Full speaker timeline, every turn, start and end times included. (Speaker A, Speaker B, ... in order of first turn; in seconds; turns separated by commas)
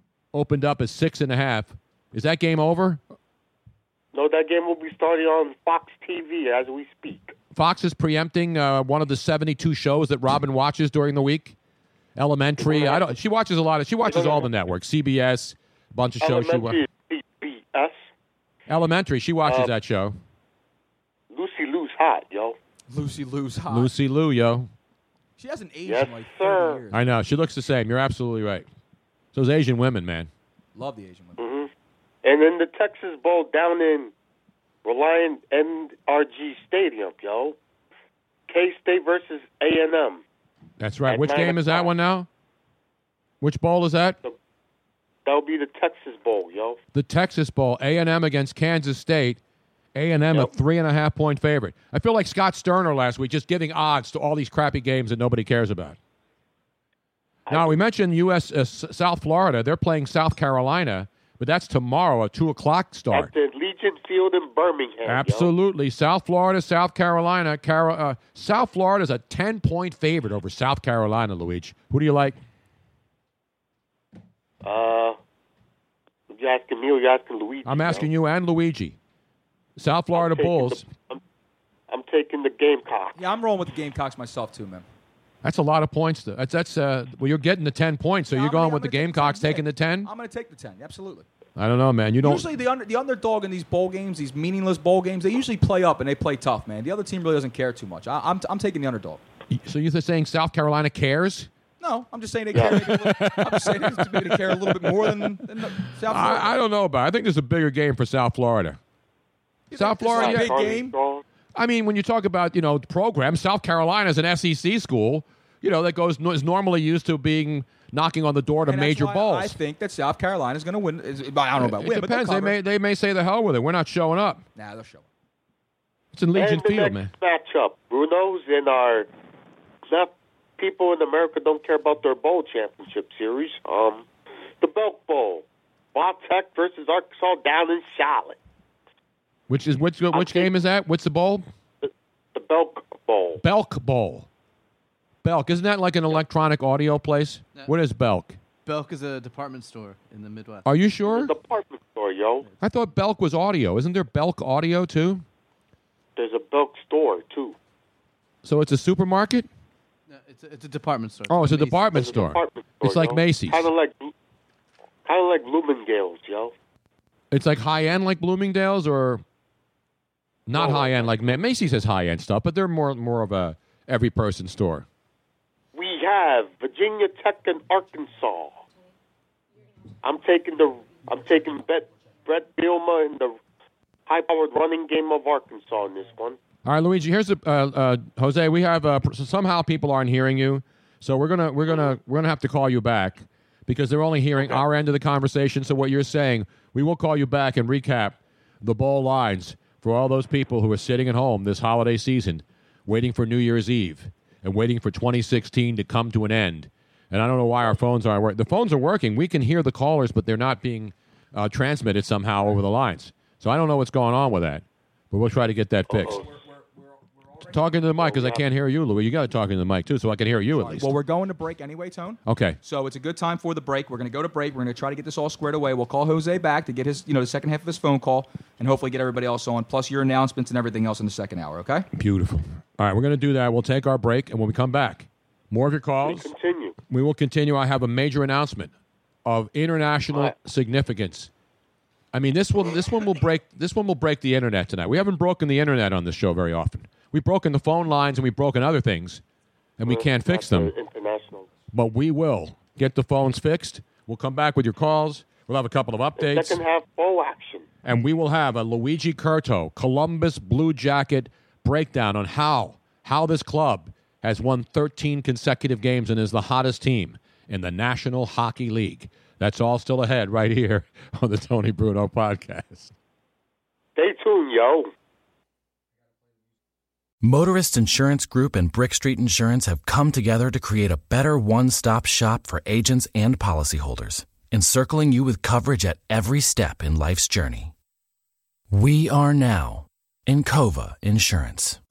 Speaker A: 0.3-3.0, Speaker B: 4.1-7.3, Speaker A: 7.5-11.6, Speaker A: 12.2-16.8, Speaker B: 12.6-13.0, Speaker B: 14.0-14.5, Speaker B: 16.2-18.0, Speaker A: 18.7-20.2, Speaker B: 19.4-19.7, Speaker B: 21.3-22.6, Speaker C: 22.9-23.9, Speaker A: 23.7-24.7, Speaker C: 25.4-27.0, Speaker B: 25.9-26.8, Speaker A: 26.9-28.7, Speaker A: 29.3-30.3, Speaker C: 30.8-31.4, Speaker B: 31.4-31.7, Speaker B: 32.2-34.1, Speaker B: 34.8-37.6, Speaker B: 38.5-40.2, Speaker A: 40.8-42.3, Speaker B: 41.1-41.9, Speaker A: 43.4-44.2, Speaker B: 45.2-46.8, Speaker A: 47.0-49.4, Speaker A: 50.0-56.0, Speaker B: 57.5-57.8, Speaker A: 57.5-63.3, Speaker B: 63.1-65.5, Speaker A: 65.1-72.4, Speaker B: 74.6-75.2, Speaker B: 76.3-78.1, Speaker A: 77.7-79.0, Speaker A: 79.8-80.9, Speaker B: 80.1-81.2, Speaker B: 81.9-83.2, Speaker C: 83.2-84.8, Speaker A: 85.4-90.1, Speaker C: 88.3-91.3, Speaker A: 91.6-92.5, Speaker C: 92.2-99.2, Speaker A: 99.5-101.5, Speaker C: 101.8-106.6, Speaker A: 102.7-108.8, Speaker C: 109.7-110.9, Speaker A: 109.8-110.5, Speaker B: 110.1-111.2, Speaker A: 111.5-119.6, Speaker C: 118.7-122.6, Speaker A: 121.6-124.4, Speaker C: 124.6-125.0, Speaker A: 126.1-127.1, Speaker B: 126.3-129.1, Speaker B: 129.9-134.1, Speaker B: 134.6-138.4, Speaker A: 139.5-141.4, Speaker B: 140.1-140.5, Speaker B: 141.8-143.4, Speaker A: 143.4-144.3, Speaker A: 145.2-148.4, Speaker D: 148.7-150.7, Speaker A: 150.7-151.3, Speaker B: 151.1-152.5, Speaker A: 152.6-155.2, Speaker B: 156.2-157.6, Speaker A: 158.4-159.5, Speaker D: 160.1-162.0, Speaker A: 161.3-163.7, Speaker B: 161.9-164.1, Speaker B: 165.1-166.5, Speaker A: 167.3-169.2, Speaker A: 170.5-174.9, Speaker B: 170.6-171.1, Speaker B: 175.7-178.6, Speaker B: 180.0-183.4, Speaker B: 184.1-186.4, Speaker A: 186.7-216.2, Speaker C: 215.9-217.9, Speaker B: 216.0-216.3, Speaker A: 217.5-221.0, Speaker B: 218.0-218.4, Speaker C: 220.6-231.9, Speaker A: 222.3-222.6, Speaker A: 231.9-236.3, Speaker B: 236.0-236.8, Speaker A: 236.9-238.7, Speaker A: 239.2-241.3, Speaker A: 242.1-249.2, Speaker A: 249.8-250.7, Speaker B: 249.8-251.5, Speaker A: 251.7-256.6, Speaker B: 256.2-257.7, Speaker A: 257.8-272.9, Speaker B: 274.0-274.9, Speaker E: 277.2-287.7, Speaker E: 288.7-291.8